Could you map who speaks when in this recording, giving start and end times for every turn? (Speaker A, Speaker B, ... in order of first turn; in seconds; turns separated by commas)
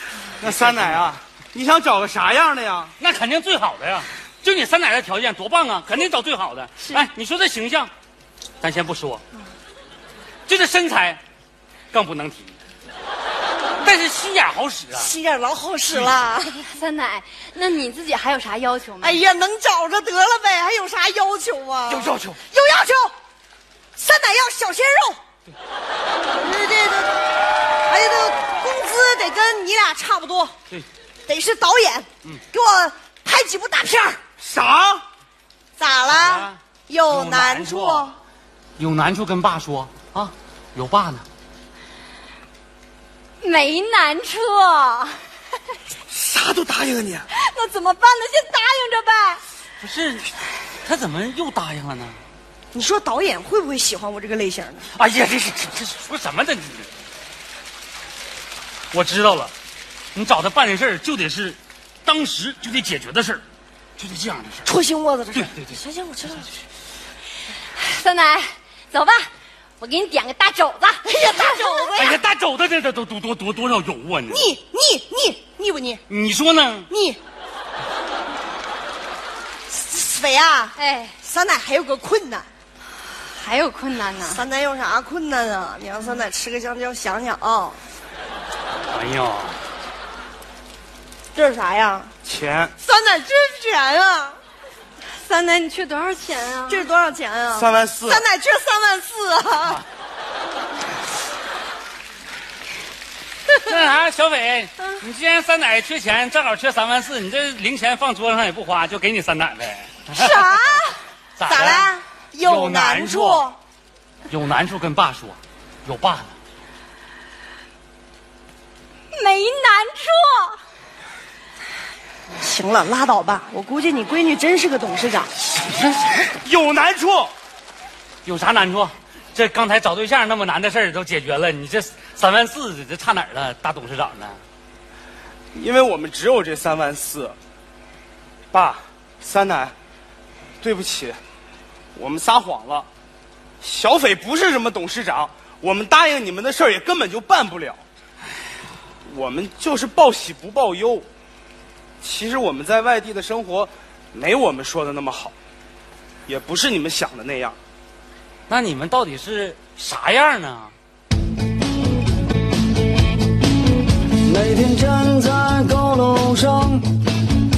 Speaker A: 0.4-2.9, Speaker B: 0.6-0.9, Speaker B: 3.0-7.9, Speaker B: 8.6-9.2, Speaker B: 10.5-11.2, Speaker B: 11.9-12.6, Speaker B: 13.8-15.1, Speaker C: 14.9-16.7, Speaker D: 16.7-19.2, Speaker C: 19.0-23.1, Speaker B: 21.9-22.4, Speaker C: 24.0-25.2, Speaker C: 26.3-27.2, Speaker C: 27.8-30.6, Speaker C: 31.3-34.2, Speaker A: 34.4-35.0, Speaker C: 35.8-38.2, Speaker B: 36.1-36.6, Speaker B: 37.1-38.1, Speaker B: 38.8-41.2, Speaker D: 43.4-45.2, Speaker A: 46.1-47.3, Speaker D: 47.3-49.4, Speaker B: 49.8-50.3, Speaker B: 50.9-52.2, Speaker C: 52.7-54.9, Speaker B: 55.0-56.9, Speaker B: 58.9-59.5, Speaker B: 60.1-63.4, Speaker B: 64.0-64.7, Speaker C: 64.7-66.5, Speaker B: 65.3-65.8, Speaker D: 67.7-69.3, Speaker D: 69.8-71.9, Speaker C: 71.0-72.2, Speaker B: 72.0-74.5, Speaker C: 74.3-76.0, Speaker B: 76.1-76.9, Speaker C: 76.9-77.2, Speaker C: 79.7-82.5, Speaker D: 80.8-81.2, Speaker D: 83.1-84.4, Speaker C: 84.3-87.8, Speaker B: 88.9-89.6, Speaker C: 91.3-92.1, Speaker A: 92.2-92.7, Speaker C: 92.8-94.4, Speaker D: 95.2-96.9, Speaker C: 96.7-99.8, Speaker A: 97.5-98.3, Speaker B: 103.6-110.5, Speaker D: 110.1-111.0, Speaker B: 111.4-113.5, Speaker C: 111.4-113.6, Speaker B: 114.3-116.3, Speaker D: 119.1-120.6, Speaker C: 122.4-125.3, Speaker B: 125.5-126.1, Speaker A: 126.2-127.3, Speaker B: 128.2-134.4, Speaker A: 135.5-137.4, Speaker A: 138.5-139.7, Speaker A: 140.6-141.2, Speaker A: 141.9-142.9, Speaker A: 143.6-147.8, Speaker A: 149.1-151.1, Speaker A: 152.0-155.3, Speaker A: 156.3-157.6, Speaker B: 158.5-160.7, Speaker E: 164.2-166.9